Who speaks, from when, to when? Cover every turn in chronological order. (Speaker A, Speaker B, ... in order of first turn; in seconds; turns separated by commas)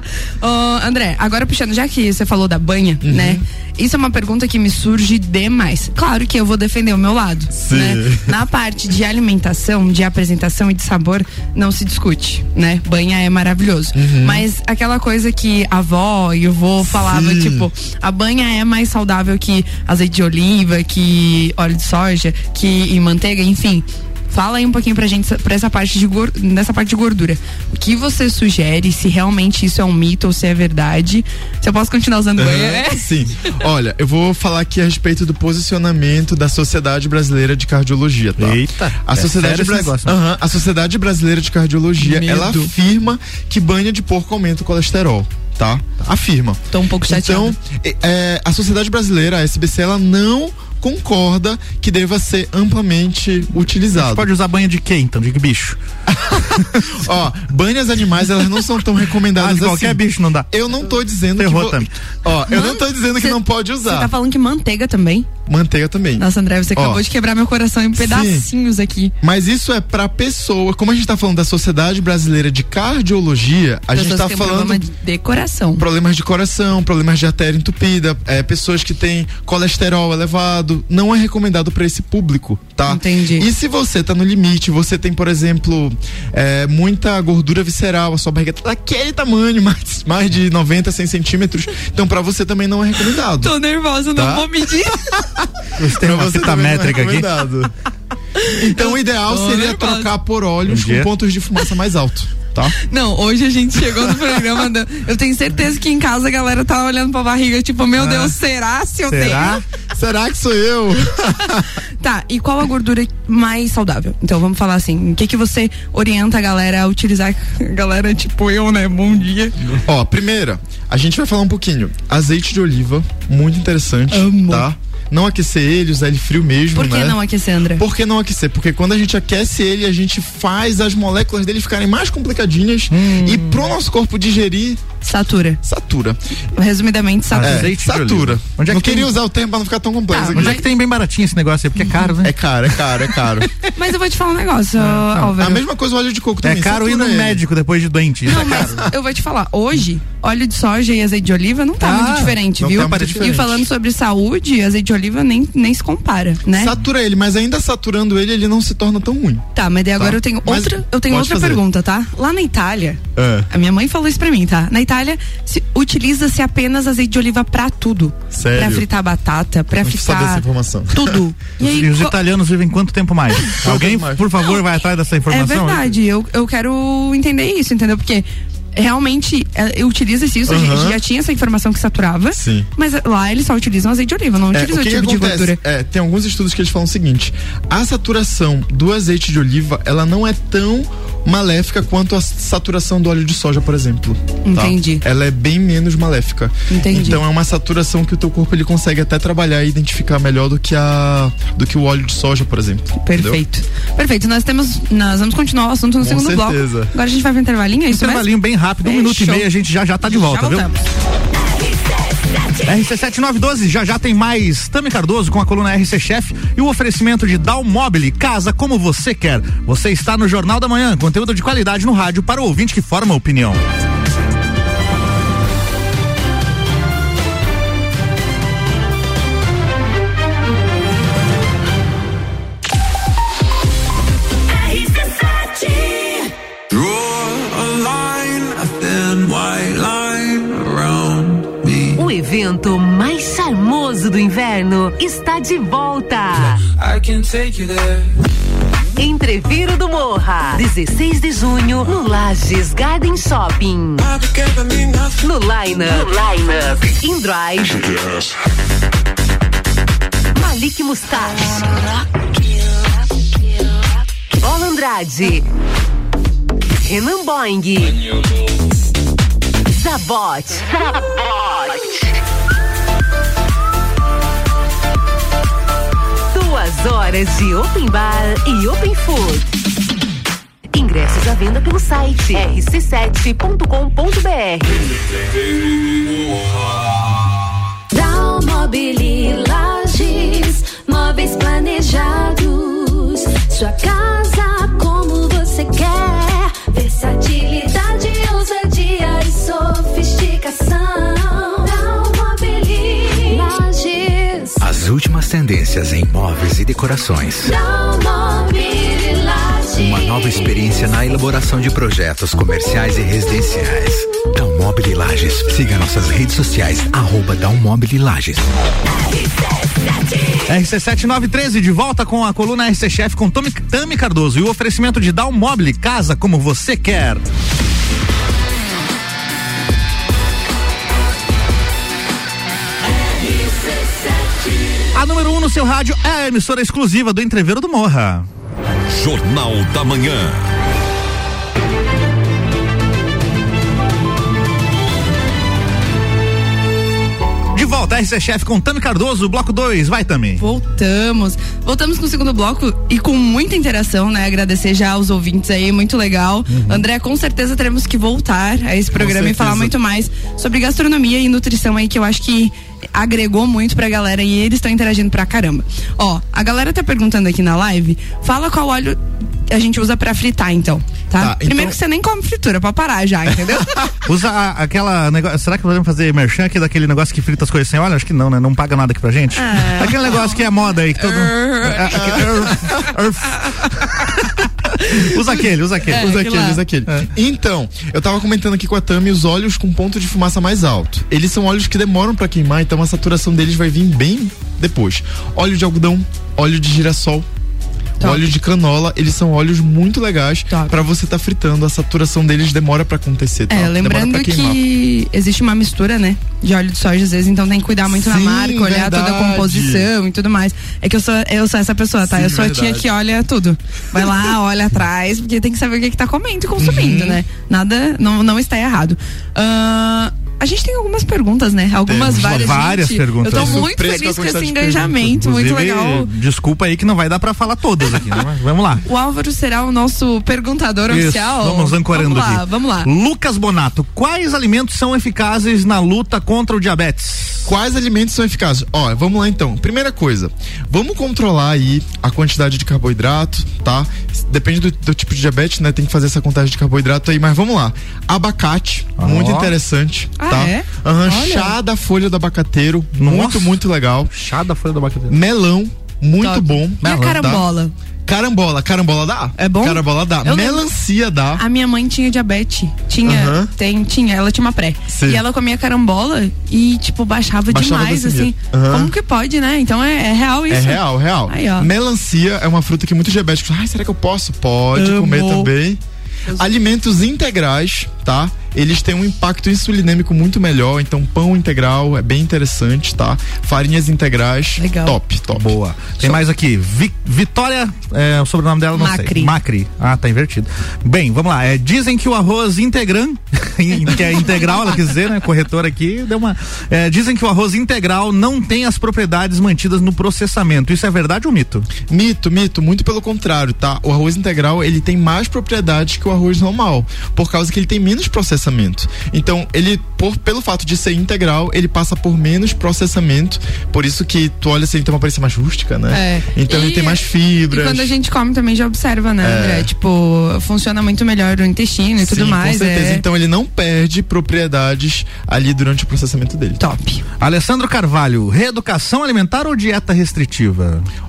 Speaker A: 0.4-33.1, Speaker B: 3.0-3.4, Speaker B: 7.5-8.3, Speaker B: 13.9-14.5, Speaker B: 16.8-17.7, Speaker B: 32.4-54.3, Speaker C: 38.4-40.2, Speaker A: 42.0-42.7, Speaker A: 46.7-47.5, Speaker C: 53.9-55.8, Speaker B: 56.1-64.1, Speaker C: 59.4-60.5, Speaker C: 61.4-61.9, Speaker A: 62.5-65.3, Speaker B: 65.5-67.0, Speaker A: 66.2-69.1, Speaker B: 68.0-68.5, Speaker B: 69.2-74.8, Speaker A: 73.9-75.8, Speaker B: 75.8-93.6, Speaker A: 82.9-83.5, Speaker A: 93.4-95.2, Speaker B: 94.1-94.5, Speaker C: 95.8-97.3, Speaker B: 95.8-97.7, Speaker A: 98.4-100.1, Speaker B: 98.5-102.8, Speaker C: 100.7-101.1, Speaker A: 102.8-109.6, Speaker C: 108.0-108.3, Speaker C: 109.1-109.6, Speaker B: 109.9-111.7, Speaker A: 112.0-119.7, Speaker B: 119.8-127.2, Speaker A: 124.1-124.7, Speaker A: 126.7-127.8, Speaker B: 127.8-134.8, Speaker C: 132.9-133.6, Speaker A: 135.0-135.6, Speaker B: 135.6-136.2, Speaker A: 136.6-137.7, Speaker C: 137.3-139.1, Speaker B: 137.4-140.6, Speaker A: 140.1-140.6, Speaker C: 140.3-142.3, Speaker B: 142.2-143.5, Speaker A: 143.8-145.6, Speaker C: 144.8-145.3, Speaker B: 145.4-147.4, Speaker C: 146.4-148.9, Speaker A: 148.3-156.7, Speaker B: 148.6-148.9, Speaker C: 151.8-153.4, Speaker B: 152.6-153.7, Speaker B: 156.5-161.6, Speaker A: 159.6-172.2, Speaker B: 163.2-163.5, Speaker B: 168.3-168.9, Speaker B: 169.8-171.2, Speaker C: 171.6-175.9, Speaker B: 173.6-174.3, Speaker A: 175.3-185.6, Speaker B: 180.5-181.0, Speaker B: 182.3-182.7, Speaker B: 184.5-203.4, Speaker A: 194.4-195.0, Speaker A: 196.7-197.2, Speaker A: 203.0-208.3, Speaker B: 206.0-206.9, Speaker C: 207.9-210.7, Speaker A: 208.8-209.5, Speaker A: 210.1-210.8, Speaker C: 212.6-223.6, Speaker D: 236.7-242.1, Speaker E: 242.0-246.6, Speaker D: 246.7-248.1, Speaker E: 249.0-254.1, Speaker D: 254.0-255.2, Speaker E: 255.2-258.1, Speaker F: 257.9-258.2, Speaker E: 260.4-261.9, Speaker E: 264.4-265.5, Speaker E: 266.8-268.0, Speaker E: 269.7-272.1, Speaker E: 276.3-279.5, Speaker E: 280.7-285.0, Speaker G: 287.9-304.6, Speaker H: 304.6-307.5, Speaker G: 307.4-310.6, Speaker H: 309.8-318.5, Speaker C: 320.5-327.2, Speaker C: 334.9-338.3, Speaker F: 338.9-340.5, Speaker C: 347.5-350.4, Speaker A: 350.4-373.9, Speaker C: 356.5-356.8, Speaker B: 358.9-359.7, Speaker B: 371.2-371.8, Speaker C: 374.1-384.3, Speaker A: 379.4-382.3, Speaker B: 381.9-382.8, Speaker C: 384.8-386.1, Speaker B: 385.9-397.3, Speaker A: 385.9-386.6, Speaker A: 398.0-398.3, Speaker B: 398.0-404.6, Speaker A: 400.5-400.8, Speaker A: 403.5-426.1, Speaker B: 407.9-409.9, Speaker B: 412.0-412.9, Speaker B: 416.6-417.2, Speaker B: 421.8-422.6, Speaker C: 422.1-423.7, Speaker B: 423.3-425.1, Speaker C: 425.0-428.8, Speaker A: 428.8-432.9, Speaker C: 430.9-437.5, Speaker B: 437.5-454.1, Speaker C: 449.0-449.5, Speaker A: 450.2-451.6, Speaker C: 453.0-455.2, Speaker B: 455.1-457.5, Speaker A: 456.2-457.7, Speaker B: 458.1-461.4, Speaker A: 459.4-460.6, Speaker A: 461.4-471.7, Speaker B: 463.1-463.5, Speaker B: 464.9-465.2, Speaker B: 467.5-468.9, Speaker B: 470.5-475.8, Speaker A: 474.8-475.5, Speaker B: 476.4-485.5, Speaker A: 484.6-485.0, Speaker C: 485.3-501.7, Speaker A: 488.8-489.3, Speaker B: 501.9-517.9, Speaker A: 515.9-523.0, Speaker B: 519.2-519.7, Speaker B: 522.0-526.6, Speaker A: 526.6-527.0, Speaker C: 527.2-530.9